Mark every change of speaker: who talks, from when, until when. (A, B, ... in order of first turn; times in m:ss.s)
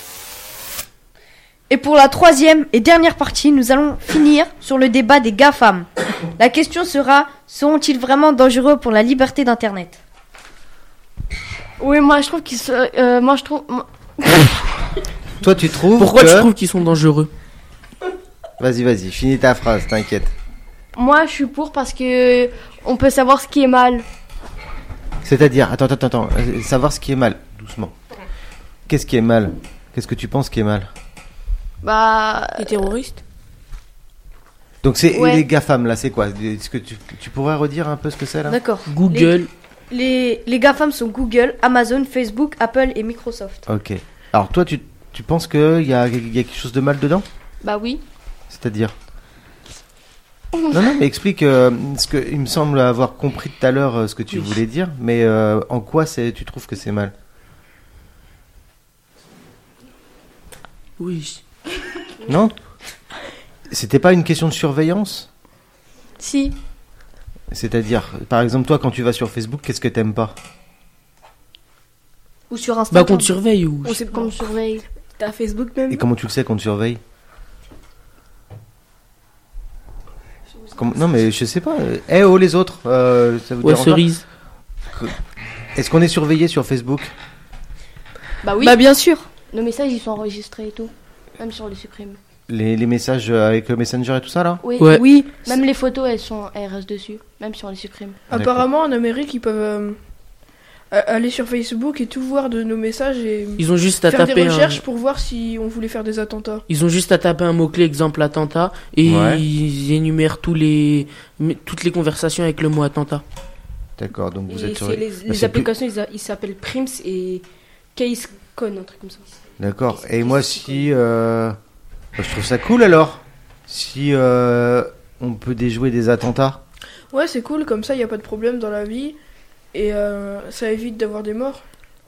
0:01.7-0:10.0 A
0:11.8-0:14.7 B
0:15.4-0:16.5 C
0:16.0-0:17.3 D
0:18.6-0:20.3 C
0:20.9-0:24.1 B
0:25.2-0:28.0 C
0:28.9-0:30.9 C
0:31.8-0:33.0 B
0:32.6-0:33.2 E
0:34.8-0:38.6 C
0:35.1-0:35.4 A
0:38.5-0:39.4 A
0:38.9-0:39.5 D
0:39.9-0:43.6 A
0:43.7-0:47.3 C
0:47.6-0:48.0 B
0:48.5-0:48.9 C
0:50.7-0:57.1 C
0:54.3-0:54.6 D
1:01.0-1:01.4 D
1:02.3-1:02.6 C
1:03.7-1:05.3 C
1:06.2-1:06.6 A
1:07.5-1:10.4 C
1:12.5-1:13.3 A
1:12.9-1:14.0 D
1:13.8-1:14.5 E
1:14.0-1:14.8 B
1:15.2-1:16.0 E
1:15.9-1:17.0 C
1:20.8-1:24.1 C
1:23.6-1:24.2 D
1:25.8-1:27.1 C
1:28.4-1:28.8 B
1:28.6-1:29.3 A
1:29.5-1:32.2 B
1:32.5-1:34.6 C
1:34.6-1:38.2 B
1:34.8-1:35.0 D
1:34.9-1:35.3 A
1:38.3-1:40.0 F
1:38.3-1:38.6 C
1:40.9-1:46.6 F
1:43.6-1:44.8 D
1:46.7-1:53.2 D
1:49.0-1:49.4 C
1:54.0-1:55.7 C
1:54.5-1:59.3 E
1:59.6-2:01.6 C
2:00.1-2:00.9 E
2:02.2-2:06.6 C
2:07.1-2:09.2 F
2:09.7-2:11.6 F